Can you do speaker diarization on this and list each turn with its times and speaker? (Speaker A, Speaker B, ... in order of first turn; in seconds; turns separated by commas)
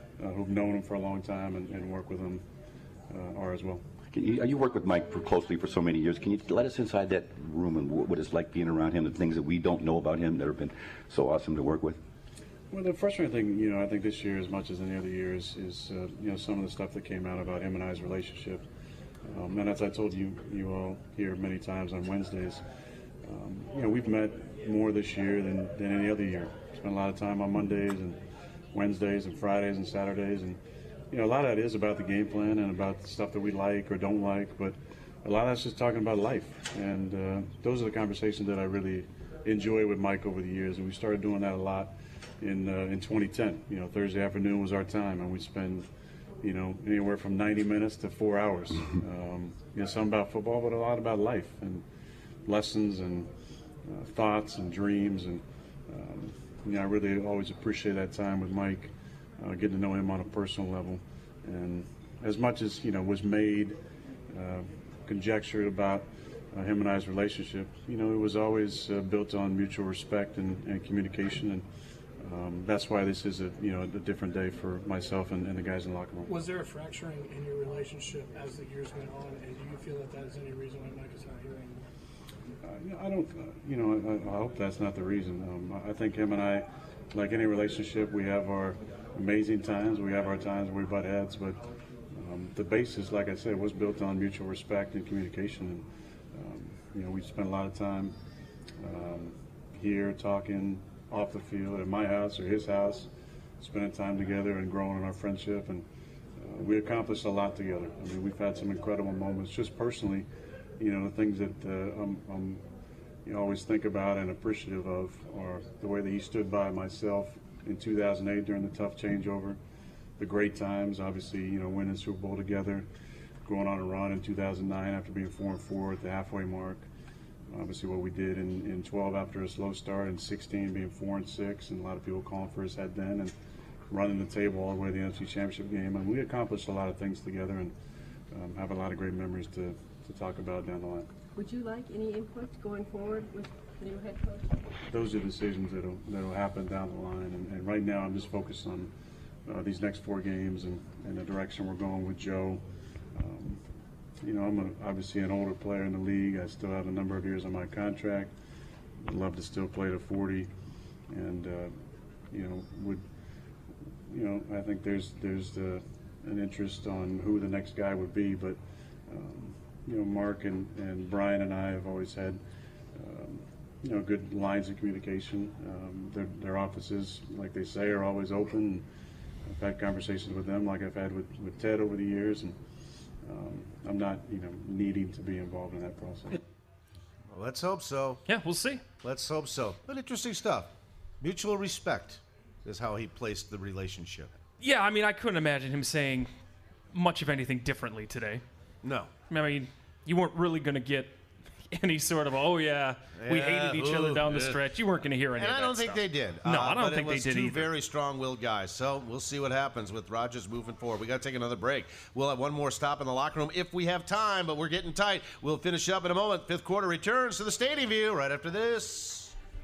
Speaker A: 0.2-2.4, Speaker A: 3.1-3.8, Speaker B: 4.1-12.0, Speaker A: 12.7-18.6, Speaker A: 19.2-22.6, Speaker A: 23.2-28.2, Speaker A: 28.7-30.6, Speaker A: 31.1-45.9, Speaker A: 46.4-51.8, Speaker A: 52.5-53.3, Speaker A: 53.8-63.8, Speaker A: 64.3-71.6, Speaker A: 72.2-76.3, Speaker C: 76.3-81.8, Speaker A: 82.6-98.1, Speaker A: 98.8-103.1, Speaker A: 103.6-105.8, Speaker A: 106.4-110.3, Speaker A: 110.8-112.6, Speaker A: 113.2-119.6, Speaker A: 120.2-122.9, Speaker A: 123.4-126.9, Speaker A: 127.5-133.3, Speaker A: 133.9-137.7, Speaker A: 138.3-141.1, Speaker D: 141.3-144.7, Speaker A: 144.9-148.9, Speaker A: 149.4-152.6, Speaker A: 153.1-153.6, Speaker A: 154.2-158.3, Speaker A: 159.0-160.5, Speaker A: 161.1-161.7, Speaker A: 162.3-163.1, Speaker A: 164.1-172.4, Speaker A: 172.9-178.8, Speaker A: 179.4-182.6, Speaker A: 183.2-186.4, Speaker E: 187.3-188.2, Speaker F: 188.3-188.8, Speaker E: 189.0-194.3, Speaker F: 194.6-196.3, Speaker F: 196.9-198.4, Speaker E: 198.8-199.1, Speaker F: 199.3-201.2, Speaker F: 201.7-207.7, Speaker E: 203.2-204.6, Speaker E: 205.4-219.3